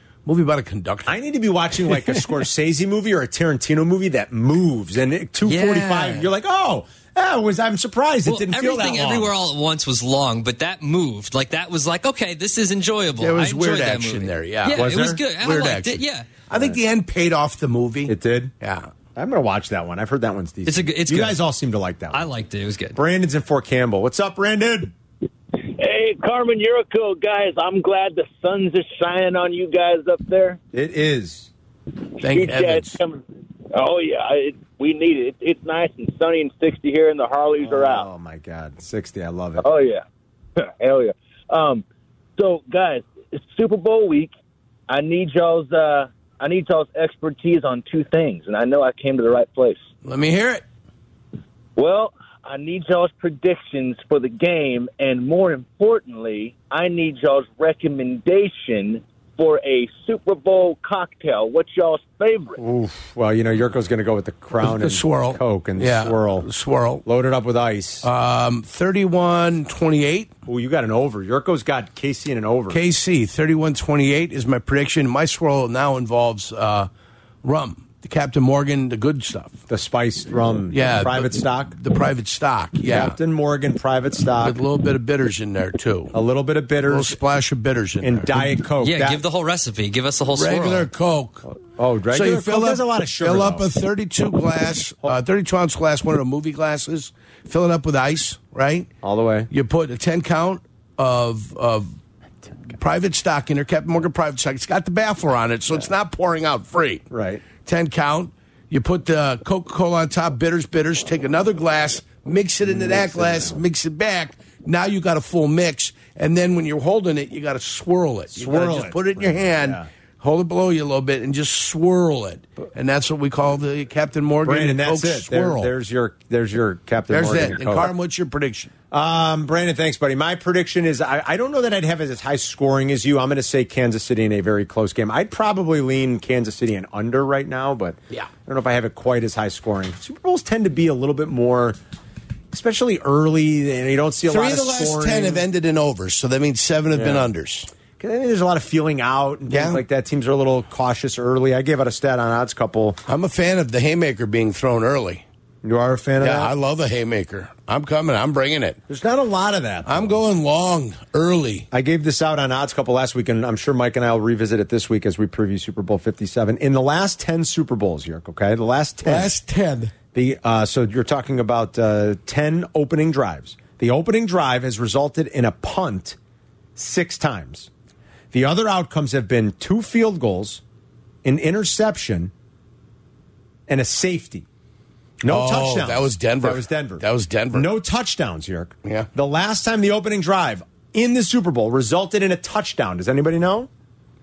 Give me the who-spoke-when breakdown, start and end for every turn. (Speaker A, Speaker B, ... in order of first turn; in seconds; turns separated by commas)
Speaker A: 0.2-1.1, Speaker B: 1.1-9.3, Speaker C: 5.5-6.3, Speaker C: 8.2-16.3, Speaker A: 13.2-18.9, Speaker B: 14.7-15.2, Speaker B: 18.1-18.5, Speaker B: 19.2-22.3, Speaker C: 20.7-21.4, Speaker C: 22.1-23.0, Speaker B: 22.9-24.9, Speaker D: 25.6-30.6, Speaker B: 30.7-31.5, Speaker A: 32.2-33.0, Speaker D: 32.2-38.1, Speaker B: 37.6-39.7, Speaker D: 39.6-40.0, Speaker D: 40.6-41.9, Speaker D: 42.4-44.3, Speaker D: 44.9-49.8, Speaker A: 50.0-50.6, Speaker D: 51.8-62.6, Speaker B: 62.6-66.5, Speaker A: 64.6-67.0, Speaker B: 67.0-68.1, Speaker A: 68.0-70.3, Speaker B: 70.5-72.8, Speaker A: 72.7-76.9, Speaker A: 77.4-79.6, Speaker B: 79.7-81.8, Speaker A: 80.7-83.2, Speaker B: 82.9-84.6, Speaker A: 84.4-86.2, Speaker B: 86.1-87.2, Speaker A: 86.9-88.5, Speaker B: 88.0-89.2, Speaker C: 88.8-90.9, Speaker A: 90.3-91.5, Speaker B: 91.6-93.7, Speaker A: 92.1-98.9, Speaker B: 99.0-99.5, Speaker A: 99.5-102.0, Speaker A: 102.8-107.0, Speaker B: 107.1-107.4, Speaker A: 107.6-125.7, Speaker B: 112.7-113.6, Speaker B: 118.3-119.9, Speaker B: 124.5-127.9, Speaker A: 127.1-128.7, Speaker B: 128.9-141.8, Speaker B: 142.5-145.5, Speaker A: 144.3-147.7, Speaker B: 146.9-147.3, Speaker B: 148.0-153.0, Speaker A: 149.5-149.8, Speaker A: 153.1-155.2, Speaker B: 155.6-156.5, Speaker A: 156.2-158.8, Speaker B: 158.9-160.2, Speaker A: 159.9-161.7, Speaker B: 161.7-169.3, Speaker A: 169.1-169.9, Speaker B: 170.1-176.2, Speaker B: 176.8-177.7, Speaker B: 178.3-180.6, Speaker B: 181.2-182.3, Speaker B: 183.7-184.5, Speaker B: 185.2-193.7, Speaker A: 185.3-187.7